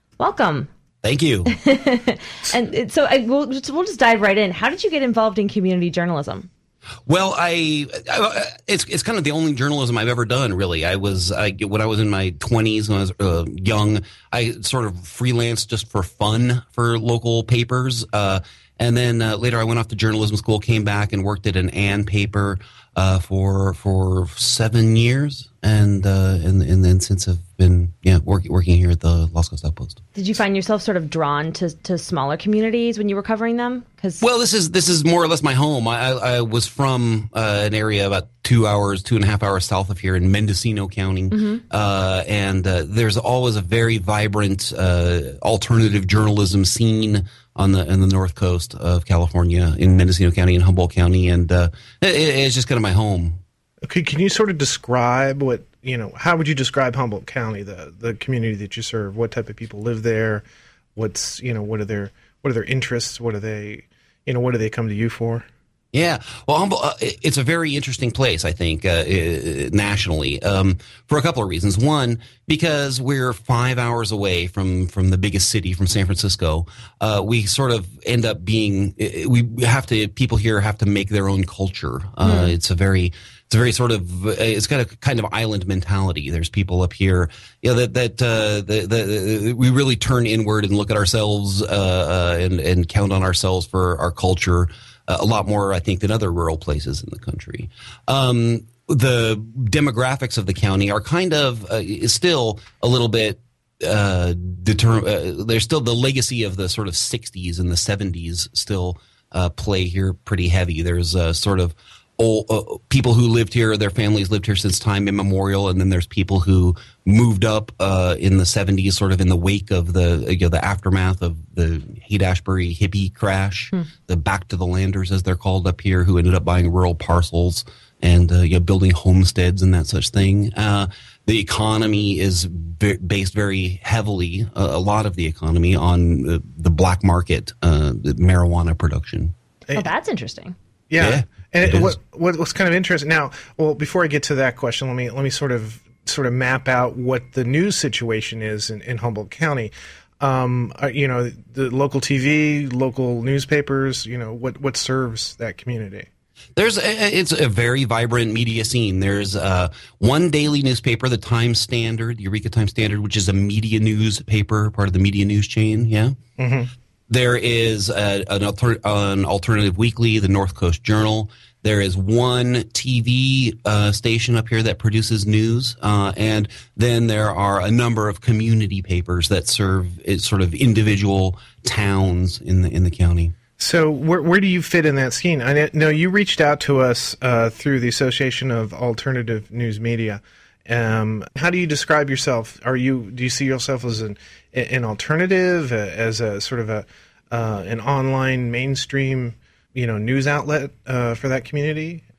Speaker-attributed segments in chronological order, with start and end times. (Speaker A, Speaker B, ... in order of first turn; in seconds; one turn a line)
Speaker A: 0.2-0.7
Speaker B: 1.0-1.6
Speaker A: 1.5-6.5
Speaker B: 7.1-30.0
Speaker A: 30.1-34.2
Speaker B: 34.2-53.4
Speaker A: 41.3-41.6
Speaker C: 53.8-60.5
Speaker C: 61.0-65.5
Speaker B: 65.9-139.3
Speaker A: 82.2-82.5
Speaker A: 139.7-140.5
Speaker C: 140.9-156.1
Speaker B: 141.0-141.9
Speaker B: 156.6-166.2
Speaker C: 166.4-166.7
Speaker B: 167.1-183.3
Speaker C: 183.6-202.0